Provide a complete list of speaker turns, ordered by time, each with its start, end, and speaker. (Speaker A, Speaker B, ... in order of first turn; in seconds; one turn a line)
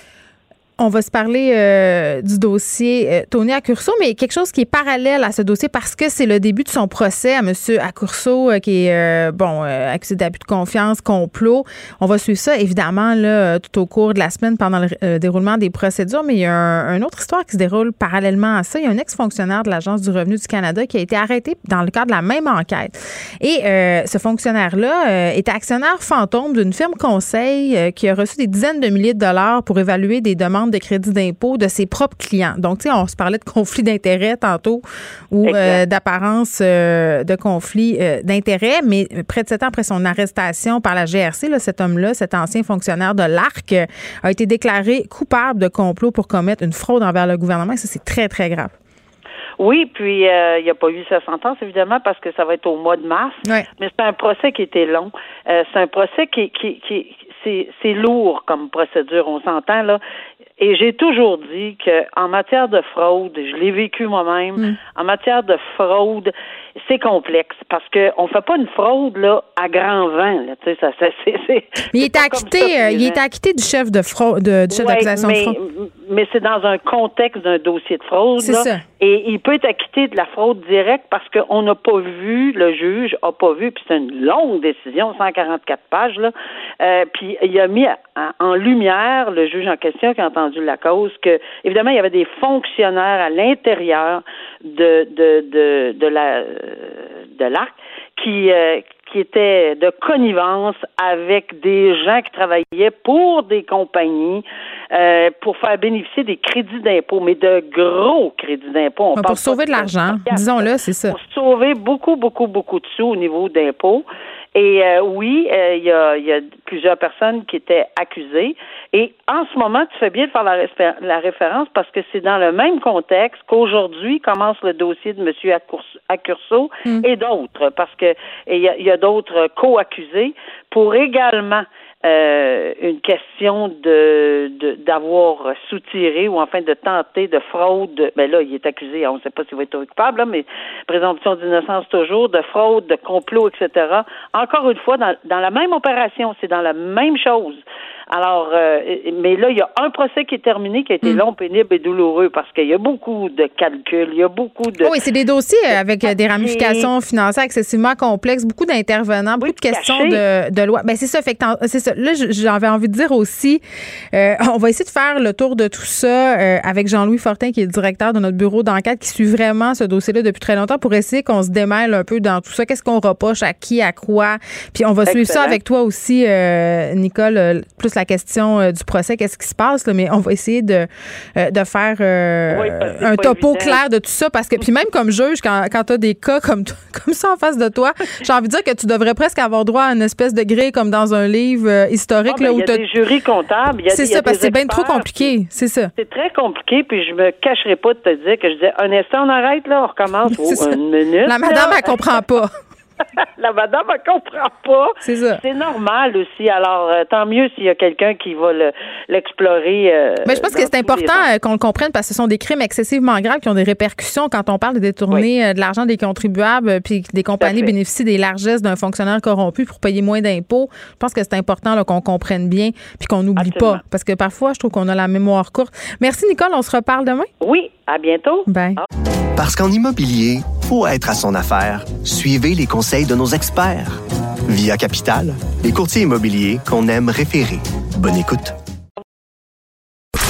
Speaker A: 0.8-48.7
Speaker B: 35.4-35.8
Speaker B: 49.6-60.0
Speaker B: 60.6-73.2
Speaker A: 71.9-75.5
Speaker B: 74.7-147.6
Speaker A: 78.4-78.8
Speaker A: 109.2-111.2
Speaker B: 148.1-154.9
Speaker A: 154.8-192.8
Speaker B: 156.0-156.9
Speaker B: 159.4-160.2
Speaker B: 175.1-175.6
Speaker B: 182.5-183.8
Speaker B: 192.3-195.3
Speaker A: 193.9-195.9
Speaker B: 196.0-202.0
Speaker A: 200.3-202.5
Speaker B: 203.4-211.2
Speaker A: 205.0-205.4
Speaker A: 210.2-227.3
Speaker B: 217.4-217.7
Speaker B: 223.4-223.8
Speaker B: 227.4-228.9
Speaker A: 228.5-228.8
Speaker C: 229.3-238.5